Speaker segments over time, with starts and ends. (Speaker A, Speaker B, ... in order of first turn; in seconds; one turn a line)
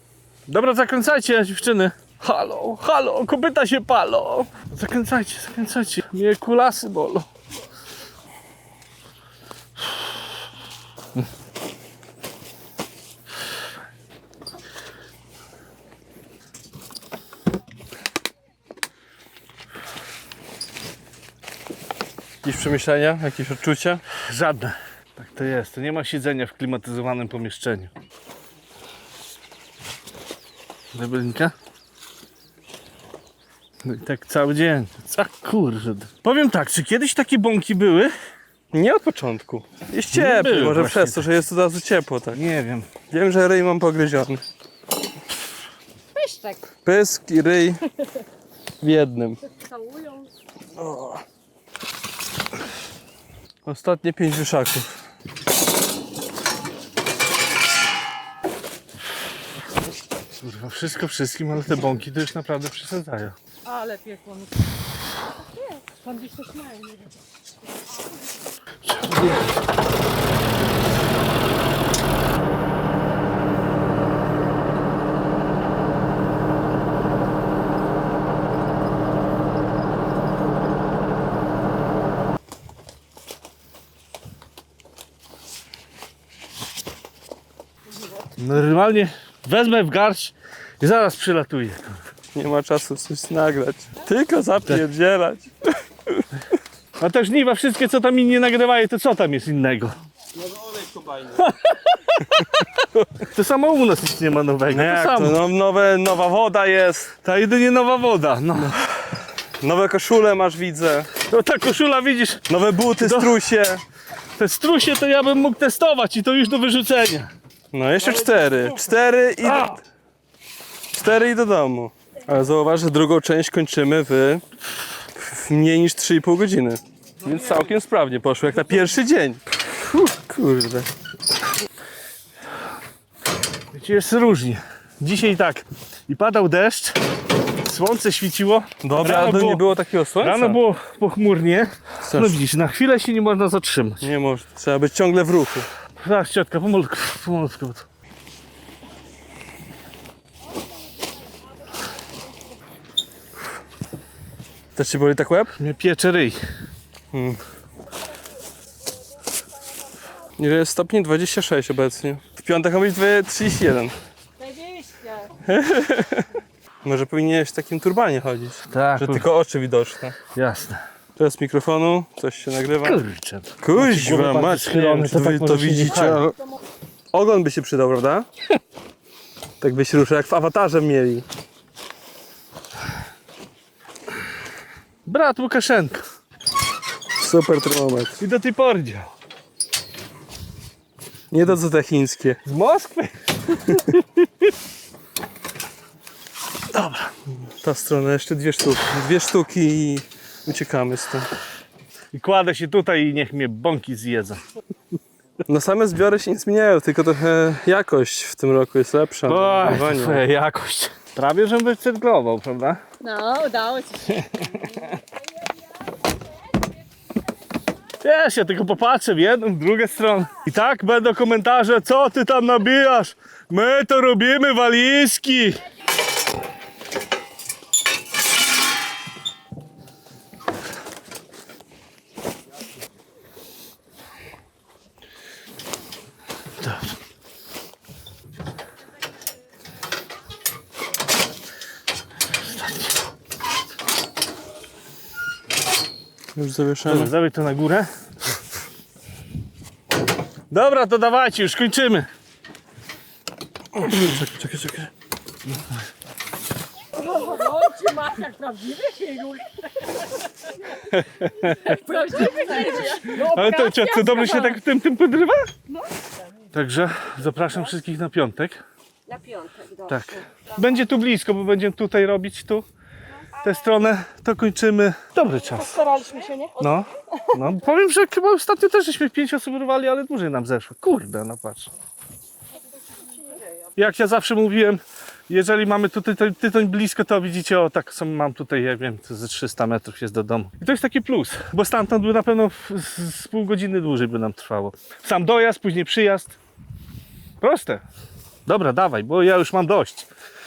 Speaker A: 0.5-7.3
Speaker B: 22.4-24.0
Speaker A: 24.1-27.9
Speaker A: 30.9-31.5
Speaker A: 33.8-38.1
Speaker B: 38.7-42.4
Speaker A: 40.1-41.3
Speaker A: 42.3-42.9
Speaker B: 43.1-44.4
Speaker C: 46.2-46.6
Speaker B: 46.8-47.9
Speaker B: 48.8-49.4
Speaker C: 49.6-50.3
Speaker B: 50.8-51.2
Speaker B: 53.6-55.0
Speaker A: 60.4-63.4
Speaker C: 63.7-64.5
Speaker C: 65.7-67.1
Speaker A: 68.8-69.4
Speaker A: 88.4-92.0
Speaker B: 92.3-96.3
Speaker A: 97.0-100.0
Speaker B: 100.5-101.4
Speaker A: 101.4-102.5
Speaker A: 103.2-105.4
Speaker B: 104.7-107.1
Speaker A: 107.2-108.8
Speaker B: 109.6-111.1
Speaker A: 111.2-112.5
Speaker B: 112.5-113.8
Speaker A: 113.0-113.4
Speaker A: 114.4-117.3
Speaker B: 117.7-119.8
Speaker A: 118.0-118.9
Speaker A: 119.5-119.8
Speaker B: 120.9-124.4
Speaker B: 125.2-130.9
Speaker A: 127.2-127.7
Speaker A: 133.7-137.0
Speaker A: 137.6-139.6
Speaker B: 138.8-140.6
Speaker A: 140.2-144.1
Speaker B: 142.0-142.4
Speaker B: 144.0-145.7
Speaker A: 146.0-147.9
Speaker B: 154.8-155.5
Speaker A: 155.6-156.4
Speaker B: 157.1-157.4
Speaker B: 160.4-164.0
Speaker C: 164.4-165.2
Speaker B: 165.4-166.3
Speaker B: 166.8-170.2
Speaker A: 168.7-169.3
Speaker A: 170.3-170.8
Speaker B: 171.2-173.0
Speaker A: 172.8-176.3
Speaker B: 173.6-176.3
Speaker B: 177.1-178.3
Speaker B: 179.6-181.2
Speaker A: 185.1-186.1
Speaker B: 187.2-188.2
Speaker A: 188.2-189.1
Speaker B: 191.3-192.4
Speaker A: 192.4-193.6
Speaker B: 193.7-194.0
Speaker A: 196.7-197.1
Speaker B: 197.4-201.3
Speaker A: 202.1-204.4
Speaker B: 205.5-210.2
Speaker A: 209.3-212.8
Speaker C: 213.0-214.1
Speaker A: 214.1-214.9
Speaker A: 218.0-225.6
Speaker A: 236.6-236.9
Speaker A: 242.4-242.9
Speaker B: 246.3-247.1
Speaker A: 246.8-247.9
Speaker A: 250.5-252.1
Speaker B: 253.8-254.9
Speaker C: 257.0-260.0
Speaker A: 261.2-261.8
Speaker C: 261.6-264.5
Speaker A: 262.4-265.5
Speaker A: 266.5-268.6
Speaker C: 269.1-269.8
Speaker A: 269.8-272.7
Speaker A: 273.4-281.7
Speaker C: 275.8-276.5
Speaker A: 283.8-296.4
Speaker A: 297.4-297.8
Speaker A: 298.5-300.1